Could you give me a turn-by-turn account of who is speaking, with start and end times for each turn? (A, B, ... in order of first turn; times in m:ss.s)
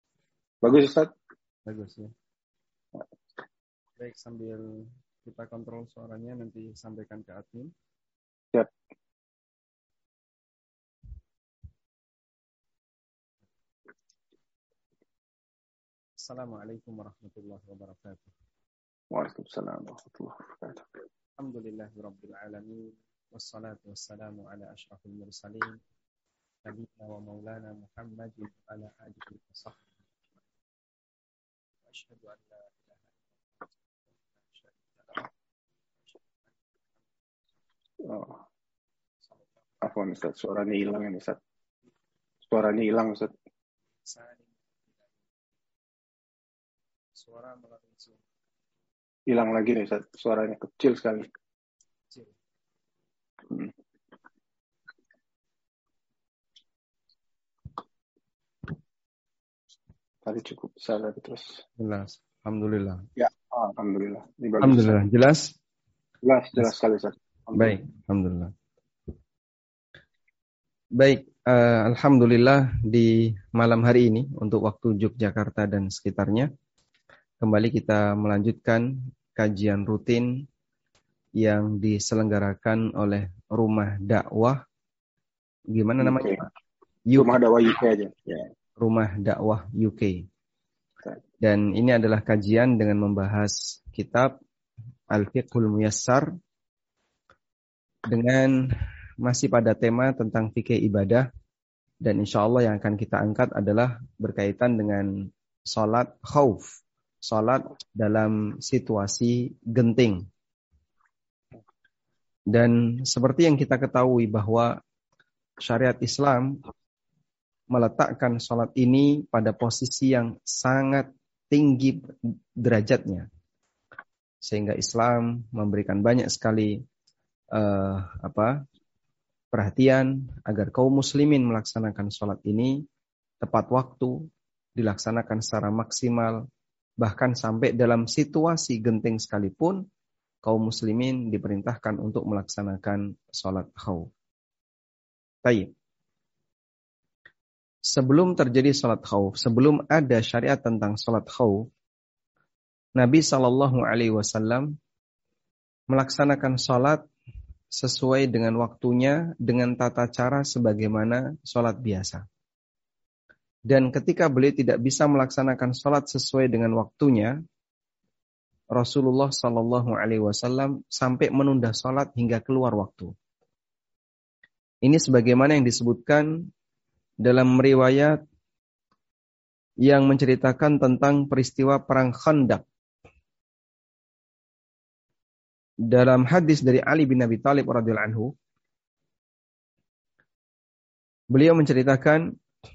0:00.6-0:01.1 A
0:01.7-0:02.1 B
0:04.0-0:07.7 B
0:16.2-0:18.3 B
0:19.1-0:20.9 A
0:21.4-0:25.8 B
0:26.6-0:29.9 B
0:31.9-0:33.0 B
0:34.4-0:35.3 B
0:38.0-0:38.4 A
0:39.8-0:41.4 A
0:42.4-0:43.3 A
0:44.1-0:44.5 B
0:47.2-0:48.2 B
0:49.3-0:51.2 A
1:00.2-1:01.6 A
1:01.8-1:03.0 B
1:03.2-1:05.0 A
1:04.6-1:05.6 B
1:06.2-1:07.8 A
1:07.5-1:08.5 B
1:11.0-1:16.5 B
1:17.4-1:20.4 B
1:21.4-1:24.6 B
1:25.7-1:26.5 B
1:26.0-1:26.4 A
1:27.1-1:27.4 B
1:27.2-1:28.5 A
1:28.8-1:30.2 B
1:31.4-1:34.3 B
1:35.1-1:36.3 B
1:38.1-1:41.3 B
1:42.0-1:50.3 B
1:52.5-1:54.8 B
1:55.6-1:56.6 B
1:57.7-2:02.1 B
2:02.6-2:03.3 B
2:04.4-2:06.8 B
2:07.5-2:08.6 B
2:09.5-2:12.8 B
2:13.4-2:14.2 B
2:14.8-2:16.4 B
2:17.0-2:19.8 B
2:20.4-2:24.1 B
2:25.4-2:25.7 B
2:27.9-2:31.7 B
2:33.0-2:34.7 B
2:35.9-2:37.0 B
2:37.7-2:42.2 B
2:43.7-2:47.3 B
2:48.8-2:53.1 B
2:54.8-2:56.5 B
2:57.2-2:58.2 B
2:59.8-3:02.6 B
3:05.9-3:08.3 B
3:11.3-3:12.3 B